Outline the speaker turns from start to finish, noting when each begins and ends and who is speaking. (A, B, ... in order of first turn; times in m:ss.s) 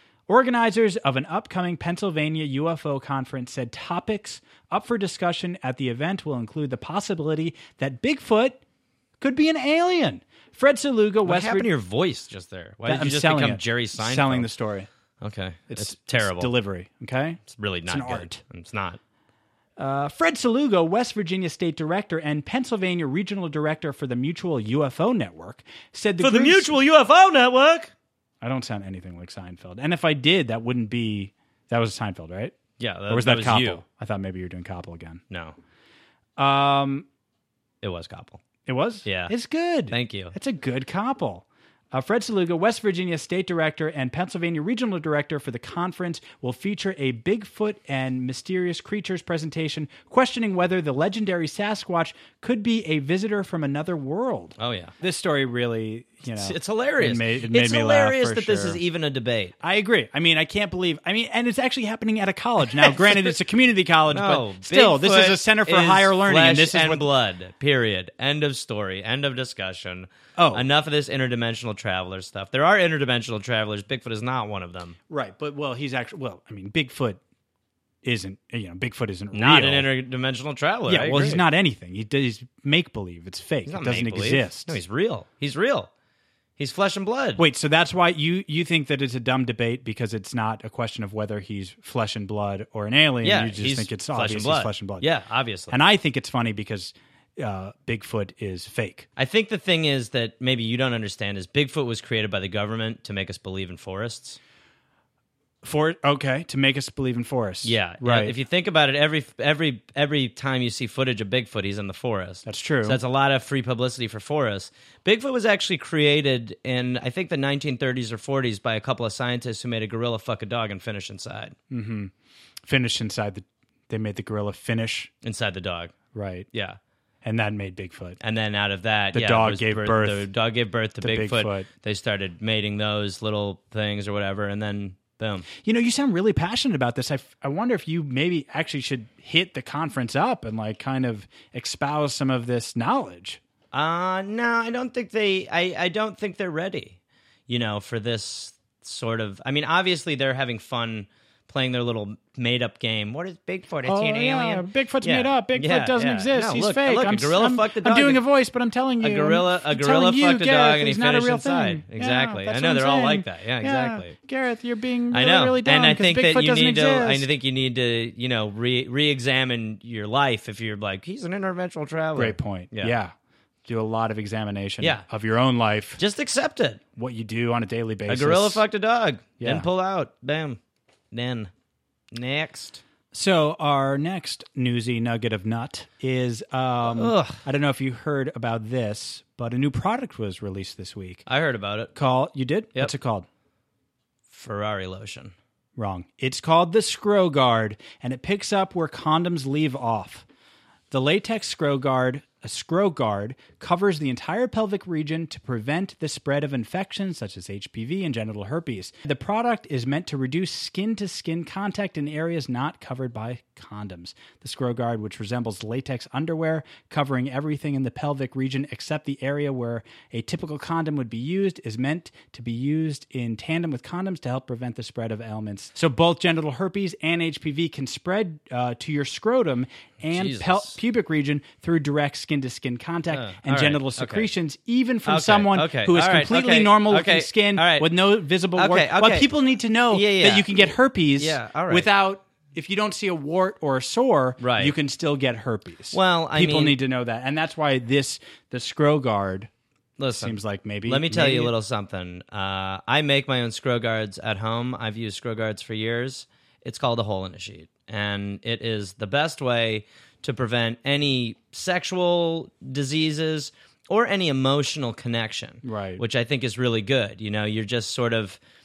0:00.3-0:08.6 A
0:09.2-0:11.7 A
0:11.2-0:14.5 B
0:12.9-0:14.9 A
0:15.2-0:16.5 B
0:15.7-0:18.4 A
0:17.5-0:19.0 B
0:19.8-0:26.8 A
0:26.2-0:27.9 B
0:28.4-0:32.6 A
0:32.8-0:33.8 B
0:33.1-0:35.2 A
0:35.3-0:35.6 B
0:36.4-0:37.1 A
0:37.8-0:38.4 B
0:38.6-0:58.8 A
0:39.0-0:39.3 B
0:39.9-0:40.4 B
0:54.6-0:54.9 B
0:56.3-0:59.6 B
0:59.6-1:07.1 A
1:02.8-1:03.3 B
1:04.1-1:15.0 B
1:10.4-1:10.7 A
1:15.1-1:17.2 A
1:18.0-1:19.9 A
1:19.3-1:21.4 B
1:20.9-1:24.8 A
1:23.7-1:25.9 B
1:26.6-1:27.4 B
1:27.4-1:35.1 A
1:33.2-1:35.8 B
1:35.7-1:39.1 A
1:39.2-1:44.4 B
1:45.6-1:48.4 A
1:47.6-2:01.6 B
1:52.4-1:53.0 A
2:01.7-2:02.1 A
2:02.7-2:05.1 A
2:05.2-2:06.0 B
2:06.1-2:06.5 A
2:06.5-2:06.8 B
2:07.2-2:08.2 A
2:08.2-2:15.5 B
2:09.1-2:10.3 A
2:11.0-2:11.7 A
2:15.6-2:23.4 A
2:23.7-2:38.2 B
2:33.8-2:47.3 A
2:39.0-2:44.2 B
2:45.1-2:52.9 B
2:52.2-2:53.1 A
2:53.6-2:56.0 A
2:56.0-2:56.8 B
2:57.0-2:58.6 A
2:58.1-3:00.6 B
2:59.4-2:59.7 A
3:01.1-3:01.5 B
3:02.1-3:02.8 B
3:03.1-3:11.2 A
3:06.8-3:07.4 B
3:11.3-3:11.9 B
3:11.9-3:13.3 A
3:14.3-3:15.3 B
3:15.8-3:20.2 A
3:20.9-4:09.5 A
3:50.1-3:50.8 B
3:53.1-3:54.3 B
3:55.0-3:58.0 B
3:58.5-3:59.3 B
3:59.9-4:00.7 B
4:01.2-4:01.9 B
4:04.4-4:04.8 B
4:05.9-4:06.8 B
4:10.0-4:28.4 B
4:10.1-4:11.5 A
4:25.6-4:26.0 A